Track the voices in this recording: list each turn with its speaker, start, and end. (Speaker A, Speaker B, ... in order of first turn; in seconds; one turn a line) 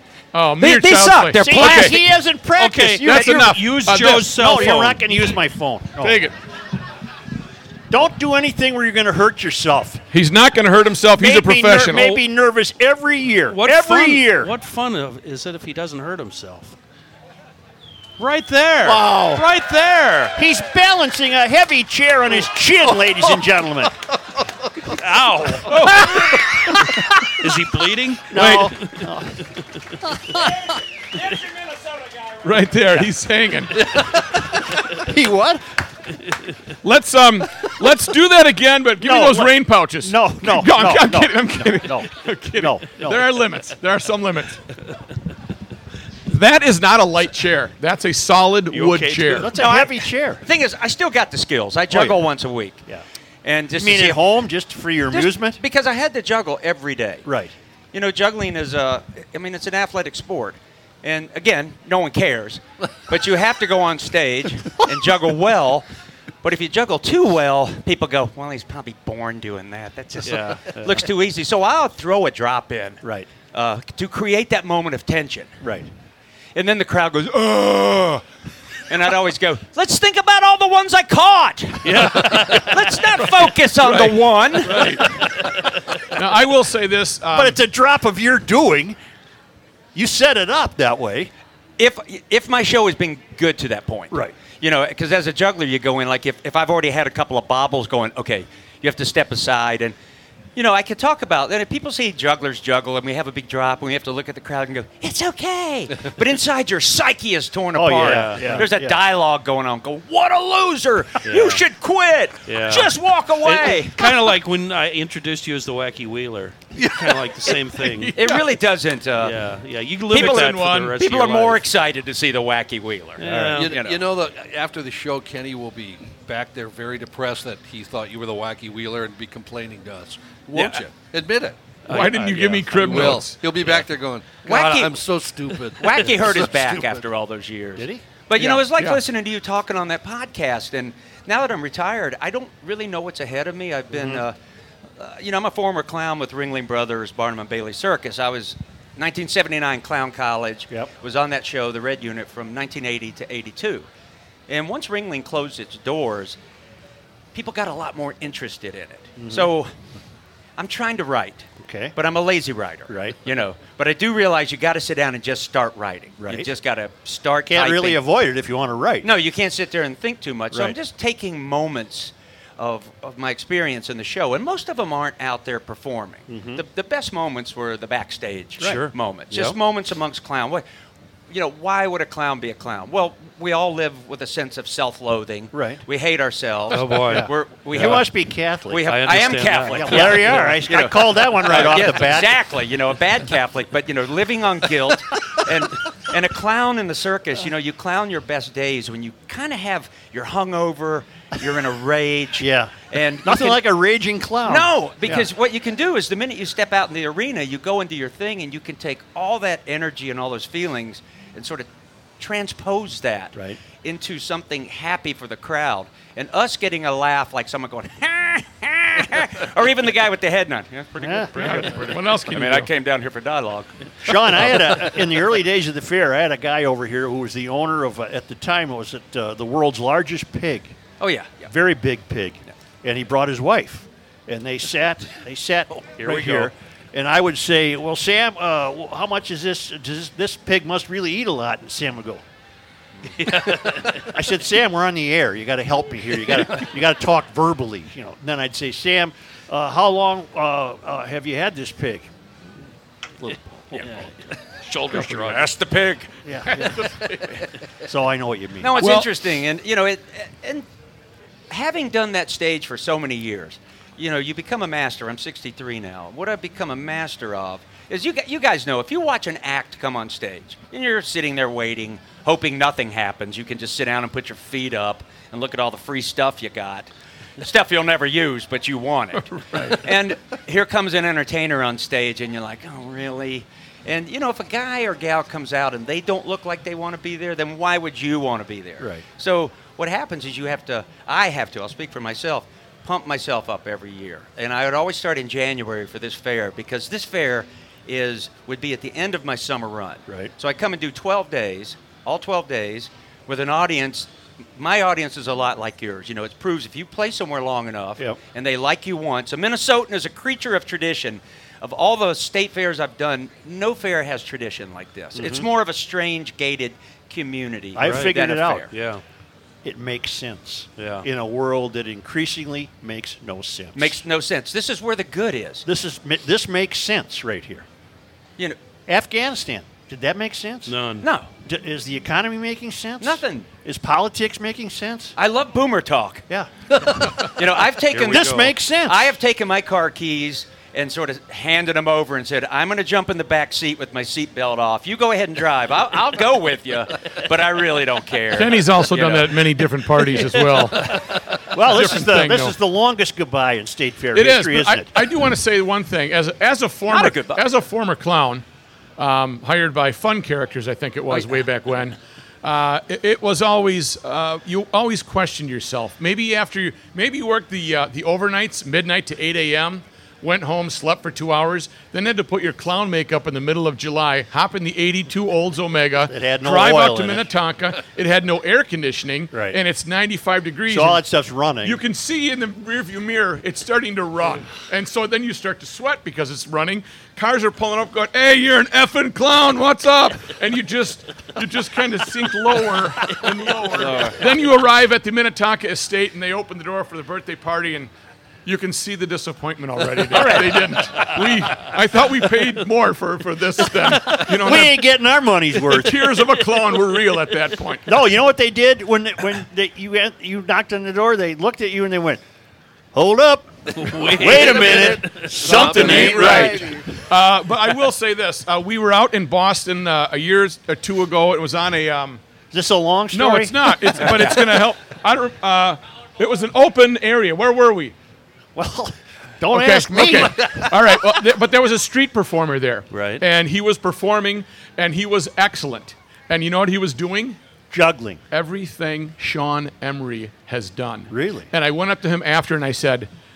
Speaker A: 0.3-2.0
Speaker B: 0.6-2.0
Speaker C: 1.3-3.5
Speaker D: 2.5-5.3
Speaker A: 3.0-4.9
Speaker C: 4.2-6.3
Speaker A: 6.0-6.3
Speaker C: 7.9-10.0
Speaker A: 10.1-12.2
Speaker C: 11.2-14.5
Speaker D: 11.8-12.2
Speaker D: 13.5-16.7
Speaker D: 18.2-20.4
Speaker C: 18.8-19.4
Speaker C: 20.4-23.9
Speaker D: 22.9-23.4
Speaker D: 24.9-29.0
Speaker A: 25.6-26.5
Speaker C: 28.3-29.4
Speaker A: 28.3-28.7
Speaker A: 32.4-34.0
Speaker C: 34.9-35.6
Speaker A: 36.8-44.6
Speaker C: 39.0-43.3
Speaker A: 46.3-49.6
Speaker B: 48.7-52.8
Speaker C: 49.2-50.4
Speaker C: 51.9-52.3
Speaker B: 53.4-54.3
Speaker C: 53.8-55.6
Speaker B: 55.1-57.3
Speaker C: 57.2-57.5
Speaker B: 57.9-65.8
Speaker B: 66.4-75.5
Speaker D: 70.2-71.0
Speaker C: 73.0-73.3
Speaker C: 75.6-75.9
Speaker B: 76.5-78.2
Speaker B: 78.9-85.0
Speaker D: 81.8-83.2
Speaker A: 83.8-85.0
Speaker A: 86.1-87.6
Speaker C: 87.3-89.0
Speaker C: 89.9-91.3
Speaker B: 91.8-99.9
Speaker C: 94.1-94.3
Speaker B: 100.5-114.3
Speaker C: 107.7-109.0
Speaker D: 108.1-108.7
Speaker C: 111.3-111.6
Speaker D: 112.5-118.1
Speaker A: 117.8-118.5
Speaker B: 118.1-119.4
Speaker D: 119.2-121.7
Speaker B: 120.1-124.0
Speaker A: 120.1-120.9
Speaker D: 123.2-123.8
Speaker E: 123.4-136.9
Speaker B: 130.5-130.8
Speaker A: 131.9-133.4
Speaker D: 131.9-132.4
Speaker B: 134.4-135.1
Speaker B: 135.8-144.3
Speaker C: 137.8-138.6
Speaker A: 138.7-139.0
Speaker C: 143.9-144.2
Speaker B: 145.0-153.8
Speaker B: 154.5-156.4
Speaker B: 157.3-159.7
Speaker C: 159.2-159.5
Speaker B: 160.6-168.0
Speaker C: 161.6-161.9
Speaker C: 162.9-163.2
Speaker C: 166.2-166.5
Speaker C: 167.4-169.1
Speaker B: 169.0-180.6
Speaker C: 170.5-170.8
Speaker C: 176.3-176.6
Speaker C: 178.6-179.6
Speaker D: 178.6-179.5
Speaker B: 181.3-188.1
Speaker C: 185.5-185.8
Speaker D: 186.7-188.0
Speaker C: 187.1-188.8
Speaker B: 188.7-203.6
Speaker D: 188.8-190.6
Speaker C: 189.7-192.4
Speaker D: 191.5-192.0
Speaker C: 202.4-205.3
Speaker B: 204.4-211.7
Speaker B: 212.2-224.5
Speaker C: 213.3-213.6
Speaker C: 221.0-221.9
Speaker A: 221.4-222.7
Speaker C: 224.0-230.7
Speaker B: 231.0-231.5
Speaker C: 231.5-242.2
Speaker D: 236.0-236.5
Speaker D: 243.2-244.0
Speaker C: 243.3-252.1
Speaker C: 253.2-254.0
Speaker D: 254.6-255.6
Speaker B: 254.9-256.1
Speaker C: 256.2-256.9
Speaker A: 256.5-257.3
Speaker C: 257.8-258.8
Speaker B: 258.6-260.6
Speaker A: 258.8-259.1
Speaker B: 261.5-318.7
Speaker C: 288.8-289.0
Speaker C: 315.1-315.5
Speaker C: 317.7-318.7
Speaker D: 317.8-318.1
Speaker D: 318.7-319.0
Speaker C: 319.6-324.0
Speaker D: 320.8-321.1
Speaker B: 323.7-325.6
Speaker C: 325.6-327.6
Speaker C: 328.9-330.8
Speaker D: 330.6-331.1
Speaker B: 331.0-331.3
Speaker C: 331.4-335.1
Speaker B: 333.0-333.5
Speaker B: 335.2-336.2
Speaker C: 336.3-337.3
Speaker B: 337.3-349.3
Speaker D: 337.9-338.6
Speaker C: 337.9-339.1
Speaker A: 348.3-350.9
Speaker C: 351.5-355.1
Speaker A: 351.6-352.6
Speaker A: 354.1-358.4
Speaker B: 356.9-357.5
Speaker A: 359.0-381.0
Speaker B: 361.1-361.4
Speaker C: 376.1-377.3
Speaker C: 379.3-379.6
Speaker C: 380.7-381.8
Speaker A: 381.6-397.9
Speaker B: 393.8-394.2
Speaker A: 398.4-404.8
Speaker C: 400.1-400.7
Speaker C: 404.1-406.2
Speaker A: 405.7-408.0
Speaker C: 407.9-412.2
Speaker C: 412.9-416.7
Speaker D: 413.7-416.4
Speaker E: 414.4-416.8
Speaker A: 415.4-422.2
Speaker C: 422.5-424.4
Speaker A: 423.1-427.9
Speaker B: 424.0-424.4
Speaker C: 428.6-431.1
Speaker A: 429.5-437.4
Speaker C: 437.7-438.2
Speaker A: 438.3-443.1
Speaker C: 441.1-441.5